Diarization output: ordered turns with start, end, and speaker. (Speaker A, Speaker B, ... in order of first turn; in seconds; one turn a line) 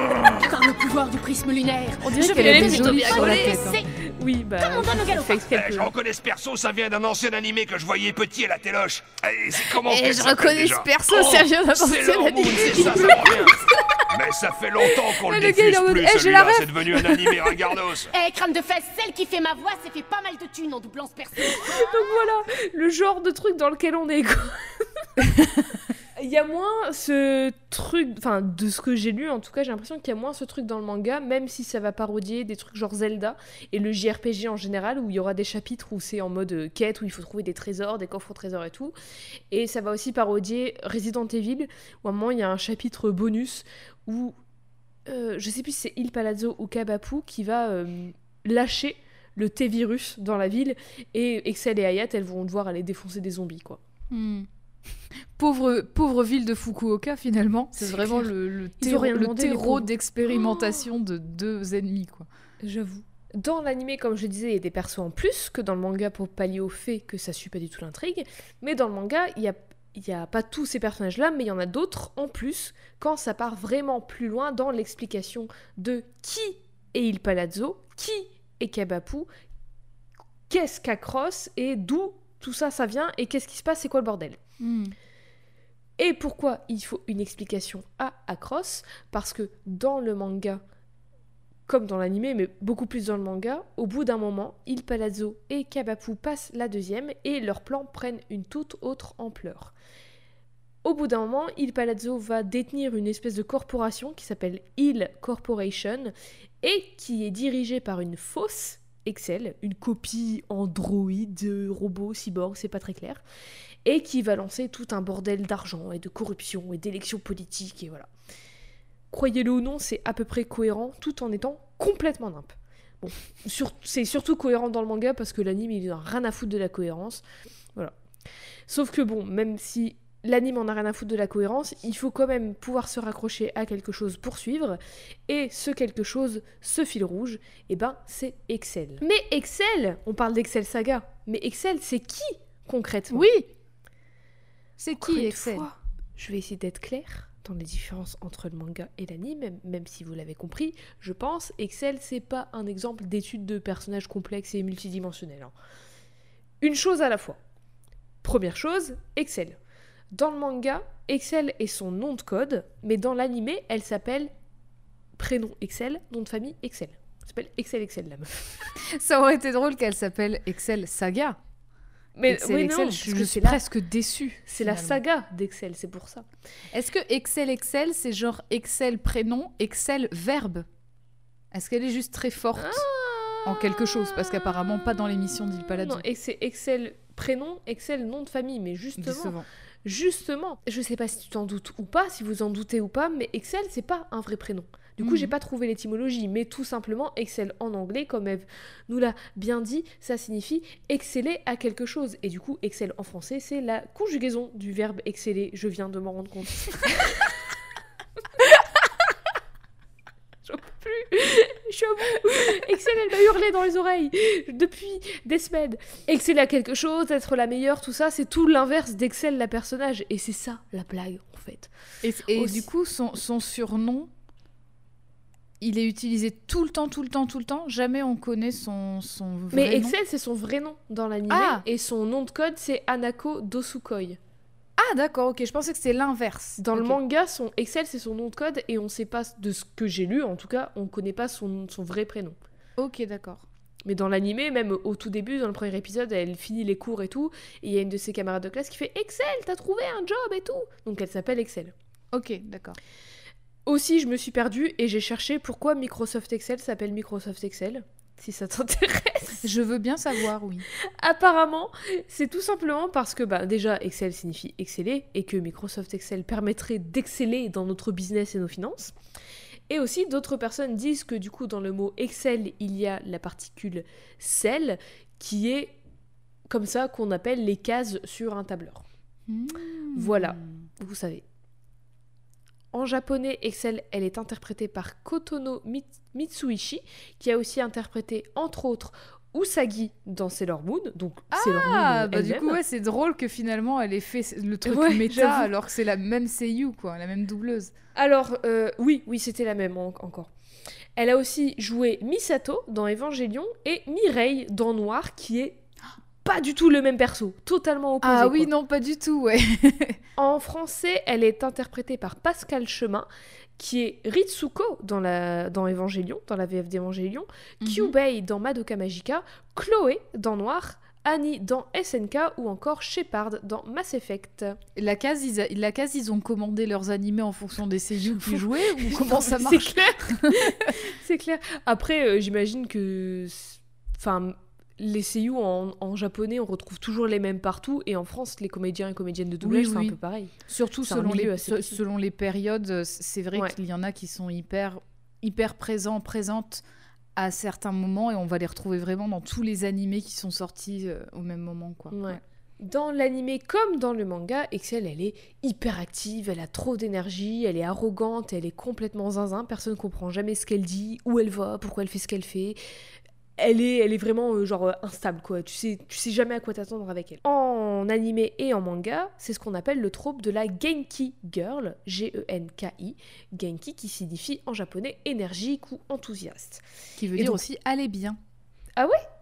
Speaker A: 0.4-3.9
Speaker B: 2.1-3.8
Speaker C: 2.1-5.9
Speaker A: 4.6-5.5
Speaker D: 5.4-13.6
Speaker B: 9.6-13.8
Speaker C: 12.8-13.5
Speaker D: 14.1-18.1
Speaker B: 15.2-17.6
Speaker A: 18.1-21.9
Speaker C: 21.4-24.8
Speaker B: 25.2-25.5
Speaker C: 26.2-38.9
Speaker C: 39.5-44.3
Speaker C: 45.0-53.8
Speaker B: 54.1-54.5
Speaker B: 55.3-62.3
Speaker C: 57.8-59.9
Speaker C: 62.6-79.3
Speaker C: 80.5-84.4
Speaker B: 84.6-84.9
Speaker C: 86.0-90.6
Speaker C: 91.7-99.7
Speaker C: 100.8-113.2
Speaker C: 113.8-118.1
Speaker C: 119.1-127.2
Speaker C: 128.7-143.3
Speaker B: 143.1-143.5
Speaker B: 144.8-145.7
Speaker C: 145.0-155.5
Speaker C: 156.6-157.4
Speaker C: 158.2-159.6
Speaker C: 160.1-164.3
Speaker C: 165.2-168.7
Speaker B: 168.8-171.4
Speaker C: 172.2-173.6
Speaker B: 172.3-175.0
Speaker C: 174.5-176.2
Speaker B: 176.7-180.7
Speaker B: 181.5-182.8
Speaker C: 182.6-184.8
Speaker B: 183.4-186.0
Speaker C: 185.8-207.3
Speaker B: 189.0-189.4
Speaker B: 195.0-195.3
Speaker C: 210.4-221.7
Speaker B: 222.0-224.1
Speaker C: 222.3-222.6
Speaker B: 225.6-229.9
Speaker C: 229.5-234.2
Speaker B: 231.3-231.6
Speaker B: 234.8-237.0
Speaker C: 236.6-242.4
Speaker B: 242.8-243.4
Speaker C: 243.8-251.7
Speaker B: 252.1-252.8
Speaker C: 253.7-259.5
Speaker B: 259.4-260.6
Speaker C: 260.7-268.9
Speaker C: 269.7-275.7
Speaker C: 276.5-278.8
Speaker B: 279.3-280.6
Speaker C: 279.9-281.2
Speaker C: 282.7-292.6
Speaker B: 291.3-297.7
Speaker C: 294.6-295.5
Speaker C: 297.9-300.3
Speaker C: 300.9-305.6
Speaker C: 306.2-308.5
Speaker B: 308.0-310.0
Speaker C: 310.2-313.1
Speaker C: 313.6-324.6
Speaker B: 317.6-317.9
Speaker B: 324.8-330.7
Speaker C: 328.2-341.8
Speaker B: 339.4-346.6
Speaker B: 347.1-352.2
Speaker C: 351.9-362.6
Speaker C: 363.4-376.6
Speaker B: 377.0-378.2
Speaker C: 377.1-377.4